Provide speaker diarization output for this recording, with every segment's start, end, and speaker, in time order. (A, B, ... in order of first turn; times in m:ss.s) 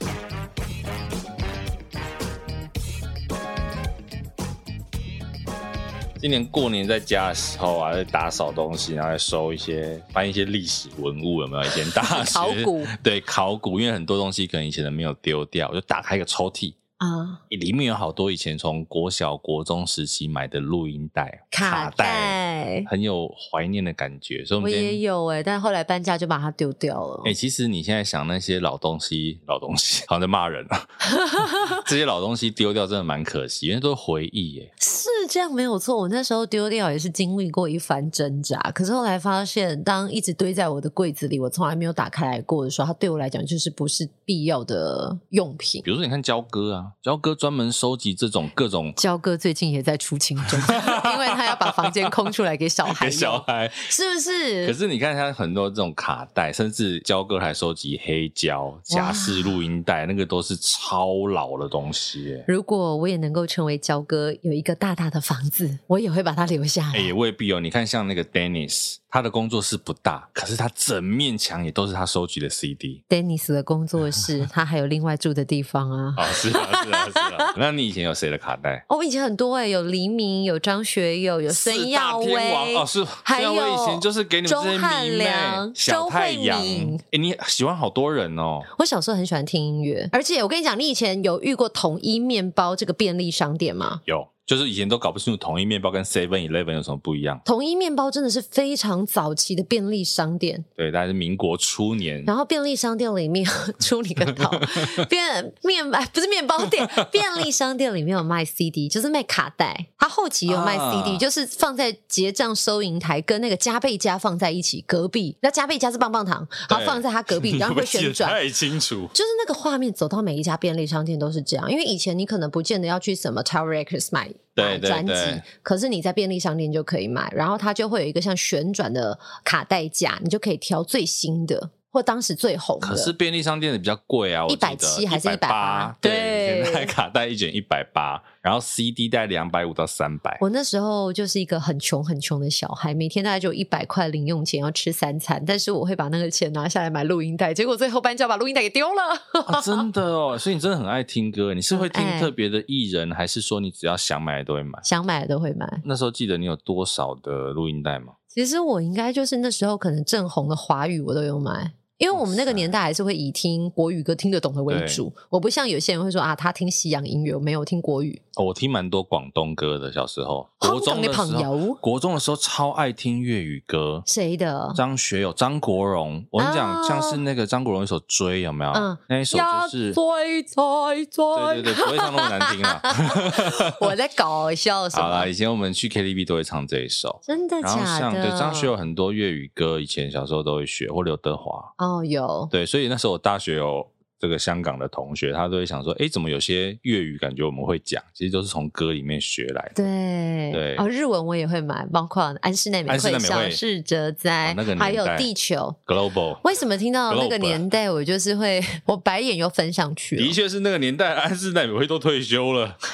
0:06.2-0:16.8 A
0:11.8-0:12.9 B
0:17.0-0:17.4 B
0:17.5-0:25.0 A
0:21.5-0:22.9 B
0:24.6-0:27.3 B
0:27.2-0:30.9 A
0:31.1-0:31.7 B
0:31.4-0:34.7 A
0:34.8-0:45.8 B
0:45.8-0:49.0 A
0:49.0-0:54.8 B
0:50.5-0:52.1 A
0:52.8-0:53.9 A
0:54.6-1:02.5 A
0:58.9-0:59.6 B
1:02.5-1:07.1 B
1:06.9-1:13.0 A
1:13.1-1:17.5 B
1:16.2-1:18.8 A
1:18.9-1:27.0 B
1:21.5-1:28.7 A
1:28.7-1:34.0 B
1:34.0-1:37.4 A
1:37.4-1:40.7 B
1:40.8-1:42.3 A
1:42.2-1:58.4 B
1:44.6-1:45.0 A
1:50.4-1:51.2 A
1:56.7-1:59.1 A
1:59.1-2:13.1 B
2:04.6-2:05.4 A
2:12.8-2:20.4 A
2:14.5-2:16.9 B
2:20.4-2:29.8 B
2:29.4-2:34.8 A
2:31.7-2:32.3 B
2:34.8-2:35.8 B
2:35.8-2:38.1 A
2:38.3-2:48.2 B
2:42.1-2:42.7 A
2:44.7-2:45.0 A
2:48.3-2:54.0 A
2:50.6-2:51.8 B
2:54.1-2:54.8 B
2:54.7-3:00.0 A
2:56.4-2:57.2 B
2:58.7-3:05.3 B
3:01.3-3:03.8 A
3:04.9-3:11.7 A
3:07.2-3:08.7 B
3:11.8-3:12.5 B
3:12.5-3:19.8 A
3:19.8-3:25.8 B
3:20.5-3:20.8 A
3:22.9-3:23.6 A
3:24.4-3:25.3 A
3:25.9-3:26.4 A
3:26.4-3:30.4 B
3:27.1-3:27.6 A
3:30.2-3:32.8 A